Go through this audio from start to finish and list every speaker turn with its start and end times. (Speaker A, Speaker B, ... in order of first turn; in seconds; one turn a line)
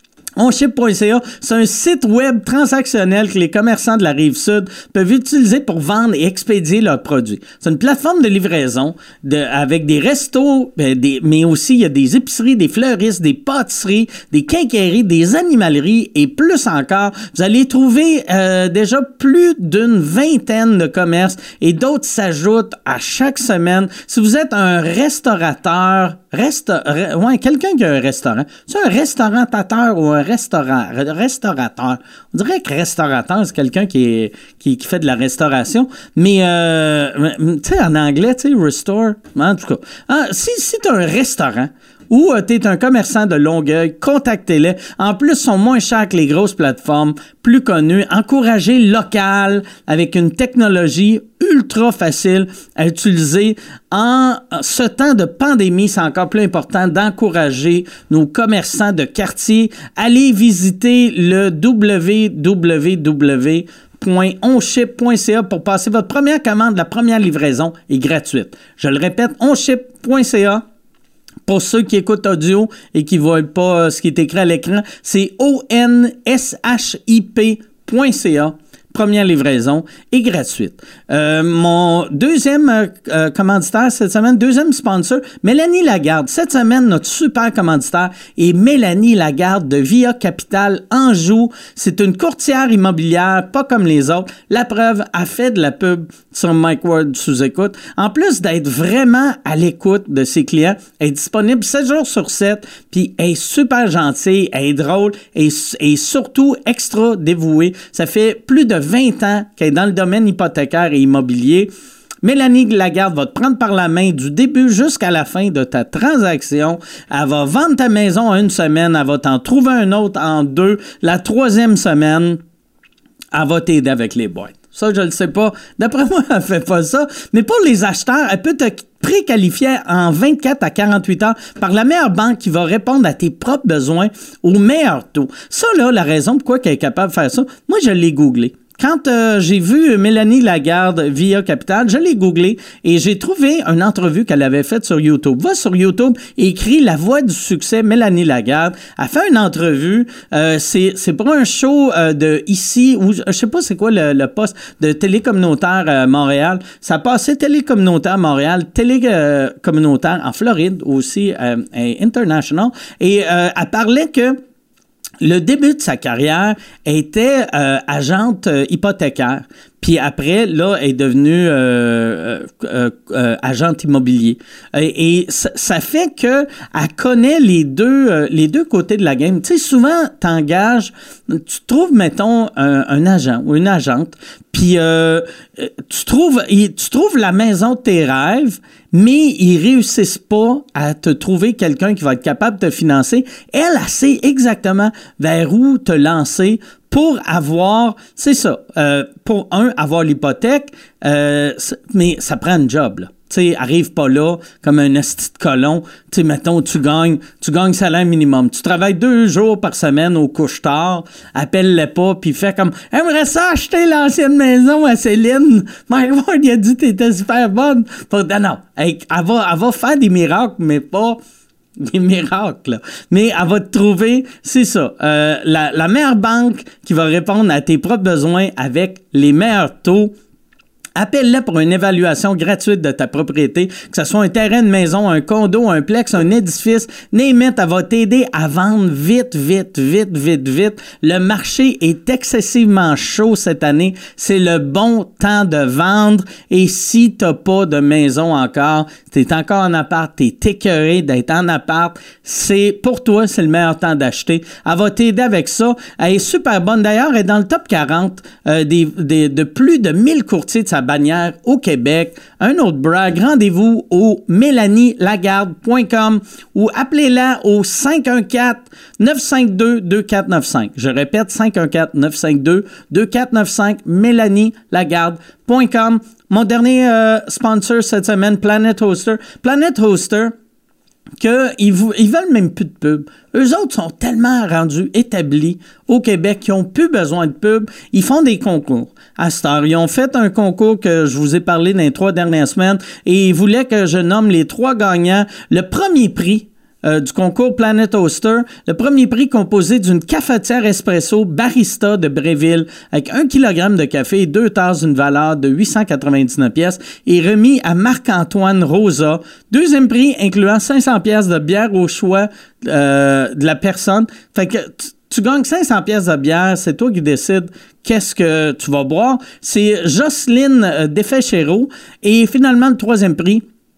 Speaker A: 0.4-70.6
Speaker A: 71.5-111.7
Speaker A: 112.2-122.4
Speaker A: 123.3-164.4
Speaker A: 165.2-221.2
Speaker A: 221.8-230.1
Speaker A: 230.9-280.3
Speaker A: 281.2-323.4